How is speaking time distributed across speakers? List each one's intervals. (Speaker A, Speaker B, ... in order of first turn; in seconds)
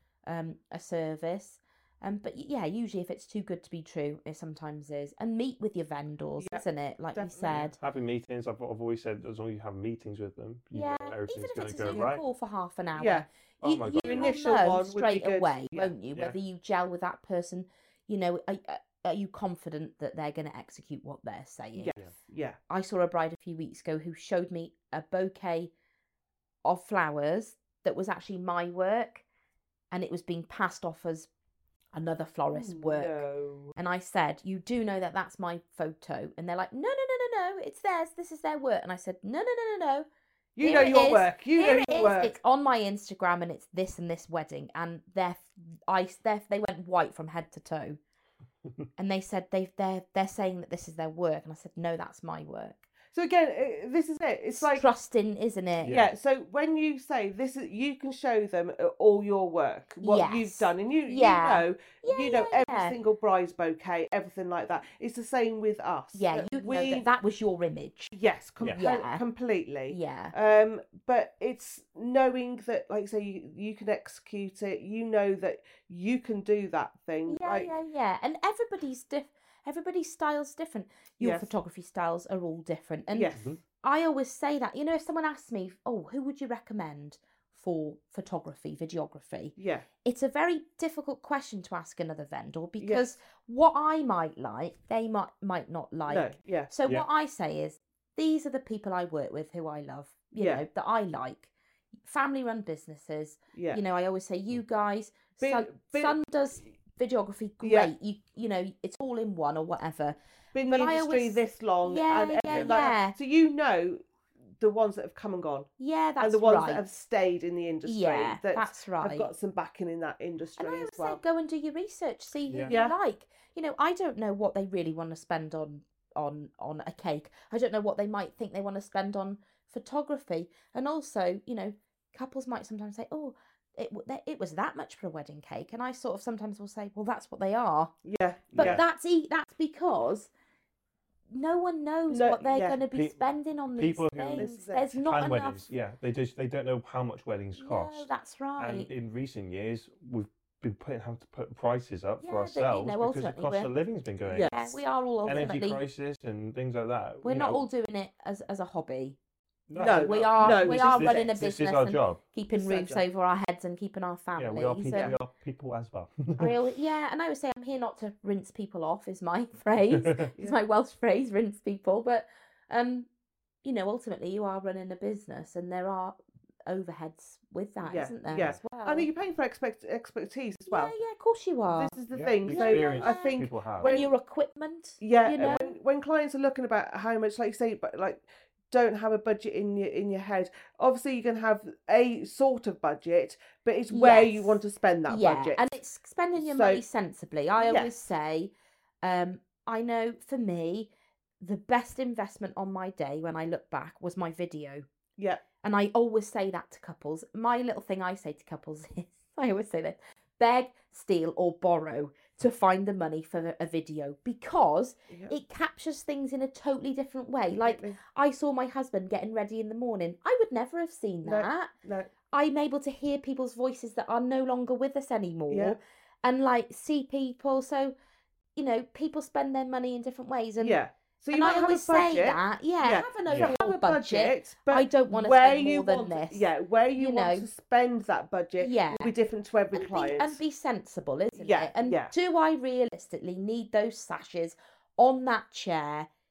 Speaker A: 0.3-7.8, 10.7-21.9, 22.7-25.7, 26.6-29.2, 29.9-31.3, 31.9-33.2, 33.8-40.0, 40.6-48.0, 49.0-52.9, 54.5-56.0, 60.0-62.9, 66.1-68.1, 68.7-69.2, 69.9-70.3, 77.3-101.5, 102.0-113.2, 115.8-117.0, 117.8-119.3, 120.6-137.9, 138.5-140.3, 141.3-145.7, 147.6-148.9, 152.2-153.7, 154.4-155.8, 157.2-159.2, 159.8-165.1, 166.4-173.1, 173.6-179.1, 180.7-181.9, 182.5-185.8, 193.9-198.5, 199.0-200.9, 201.4-204.8, 205.6-221.7, 222.3-227.9, 228.6-230.8, 231.3-236.4, 236.9-237.5, 238.6-239.1, 239.7-246.1
Speaker B: 7.1-7.5, 12.9-13.2, 14.0-15.9, 21.8-22.6, 32.5-33.7, 40.5-42.4, 53.1-54.8, 55.9-67.1, 68.1-77.7, 81.2-81.5, 83.1-83.6, 89.5-89.8, 92.8-93.1, 96.1-96.7, 100.4-100.6, 103.5-103.8, 105.4-106.1, 107.6-107.9, 110.5-114.0, 114.6-115.7, 116.2-121.2, 122.7-122.9, 138.0-138.8, 142.1-142.8, 144.3-144.9, 154.3-154.8, 159.8-161.4, 162.5-163.0, 177.8-180.9, 181.7-184.1, 185.0-195.8, 196.4-196.8, 197.6-197.9, 205.2-205.4, 215.1-215.3, 217.6-218.0, 221.2-222.1, 225.5-225.8, 230.6-240.4, 241.3-242.1
Speaker C: 7.4-12.2, 13.6-14.3, 55.8-56.1, 122.5-122.8, 142.9-143.2, 143.7-154.5, 155.2-157.6, 159.7-162.2, 164.4-166.5, 169.9-170.2, 182.1-183.9, 233.3-233.5